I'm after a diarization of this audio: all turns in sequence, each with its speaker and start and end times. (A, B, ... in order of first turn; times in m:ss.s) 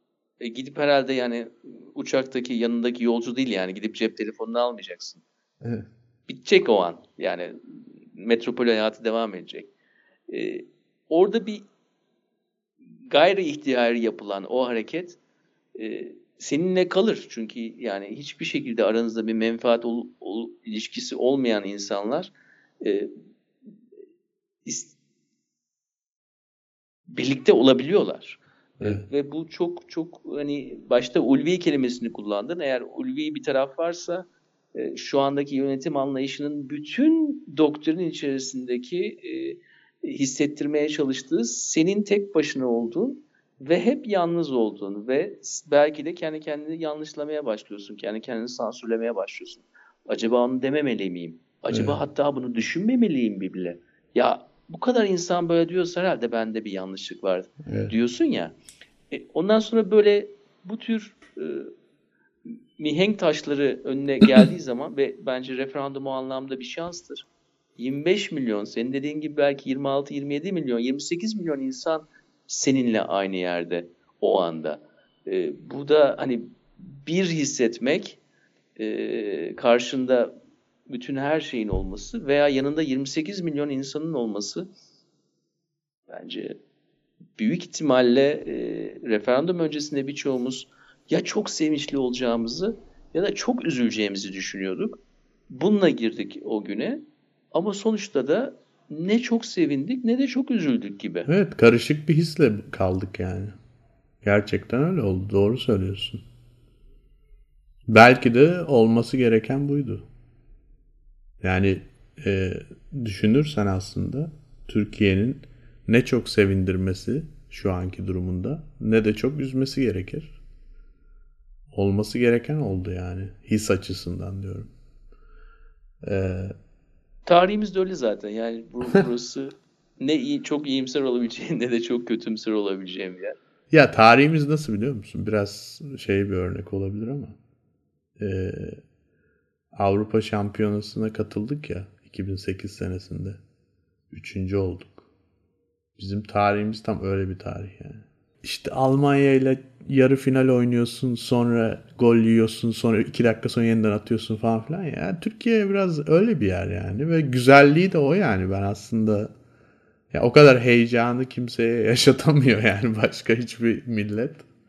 0:00.4-0:05.2 A
0:05.6-0:05.9 B
0:06.3-0:07.6 A
0:08.1-0:09.7 A
0:10.3-0:11.7 A
0:13.1-0:15.2 A
0:15.8-0:23.1 A
0:24.6-0:25.0 A
0:27.1-0:58.6 A
0:28.8-0:29.1 B
0:51.7-0:52.0 B
0:57.7-0:58.0 B
0:59.1-1:01.7 A
1:02.8-1:07.2 A
1:07.8-1:18.2 A
1:18.8-1:20.3 A
1:20.9-1:24.7 A
1:26.1-1:26.6 A
1:27.4-1:35.0 A
1:35.5-1:41.3 A
1:41.3-1:43.6 B
1:44.2-1:46.2 B
1:47.9-1:50.0 B
1:51.4-2:00.4 B
2:01.7-2:04.7 B
2:06.0-2:06.5 B
2:07.3-2:13.4 A
2:13.7-2:17.4 B
2:18.2-2:18.8 B
2:19.8-2:23.4 B
2:24.1-2:25.1 B
2:26.0-2:39.3 B
2:40.1-2:44.5 B